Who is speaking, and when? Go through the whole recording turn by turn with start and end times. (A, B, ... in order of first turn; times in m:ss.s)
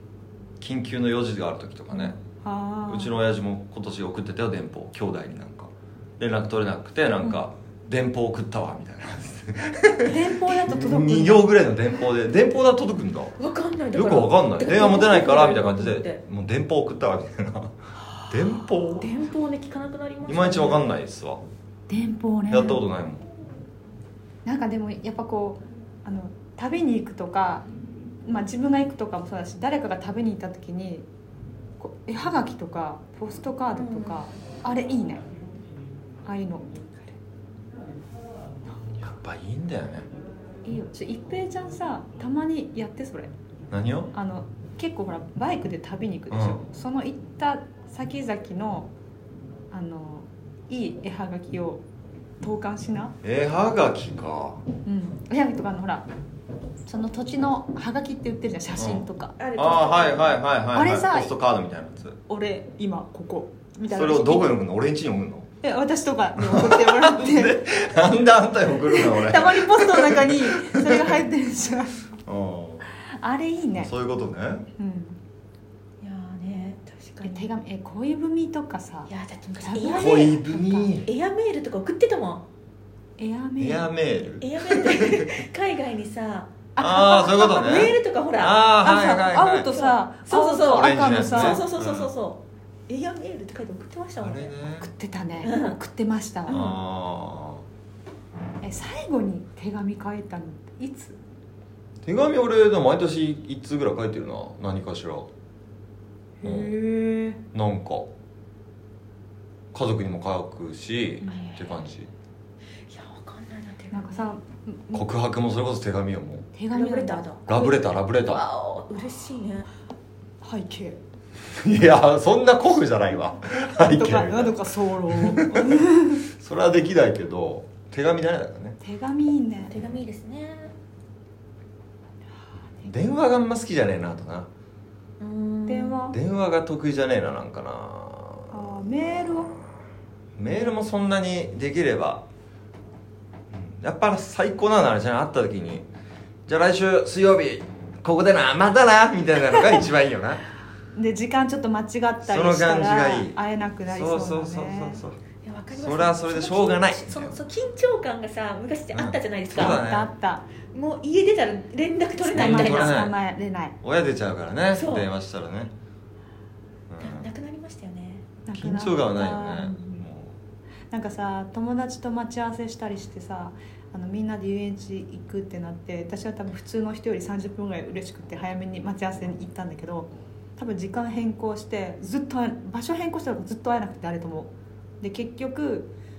0:00.6-0:02.2 A
0:01.9-0:03.2 B
0:02.9-0:13.4 A
0:10.0-0:11.5 B
0:13.4-0:16.2 C
0:13.9-0:17.7 A
0:18.3-0:19.1 A
0:19.0-0:20.9 C
0:20.3-0:21.4 A
0:21.9-0:22.8 B
0:22.5-0:23.3 A
0:24.4-0:27.6 B
0:28.2-0:31.1 B
0:31.8-0:35.2 B
0:33.7-0:34.3 C
0:36.2-0:37.2 B
0:39.0-0:40.1 A
0:40.6-0:43.3 B
0:43.7-0:44.1 A
0:44.1-0:48.9 B
0:46.3-0:46.6 A
0:49.7-0:51.8 B
0:52.4-0:53.2 B
0:53.2-0:54.6 A
0:54.8-0:56.1 B
0:56.9-0:59.4 B
0:58.8-1:02.2 A
0:59.4-1:00.4 C
1:00.8-1:01.4 B
1:02.3-1:04.6 B
1:03.9-1:05.5 A
1:05.6-1:07.6 B
1:06.4-1:11.1 A
1:08.9-1:12.0 B
1:12.3-1:12.9 A
1:13.1-1:13.9 B
1:13.8-1:14.7 A
1:14.8-1:15.2 B
1:16.0-1:17.5 C
1:17.2-1:20.9 B
1:19.1-1:20.4 C
1:19.9-1:21.1 A
1:21.0-1:22.4 C
1:23.2-1:23.9 B
1:23.6-1:25.4 A
1:24.4-1:28.6 C
1:26.8-1:27.6 B
1:26.8-1:29.7 A
1:28.8-1:31.6 B
1:29.6-1:34.5 C
1:30.7-1:32.1 A
1:34.2-1:34.9 A
1:34.8-1:36.6 B
1:35.4-1:35.8 C
1:36.5-1:37.6 A
1:38.6-1:41.2 B
1:42.0-1:45.3 A
1:46.4-1:47.4 B
1:46.4-1:46.7 A
1:47.5-1:48.1 A
1:49.7-1:52.1 A
1:51.2-1:51.8 C
1:52.8-1:54.3 C
1:53.9-1:55.0 B
1:54.9-1:56.5 A
1:56.5-1:57.7 B
1:56.7-1:59.7 C
1:57.5-1:58.4 A
2:00.4-2:01.0 B
2:01.5-2:08.8 A
2:03.8-2:06.2 B
2:08.8-2:09.7 B
2:09.7-2:10.7 C
2:12.9-2:14.5 A
2:15.2-2:16.0 C
2:15.7-2:16.2 B
2:16.1-2:18.8 A
2:18.5-2:19.6 B
2:20.4-2:22.2 A
2:23.5-2:25.9 A
2:26.5-2:30.4 A
2:30.9-2:35.0 B
2:32.3-2:33.4 A
2:33.9-2:35.2 A
2:35.4-2:39.8 C
2:35.7-2:37.4 A
2:38.9-2:40.1 A
2:39.6-2:40.4 B
2:40.7-2:43.0 C
2:42.3-2:43.1 A
2:42.3-2:43.8 B
2:43.8-2:45.7 A
2:44.7-2:45.1 C
2:46.9-2:47.3 A
2:47.0-2:48.3 C
2:48.5-2:49.8 B
2:48.5-2:50.4 A
2:50.9-3:05.9 B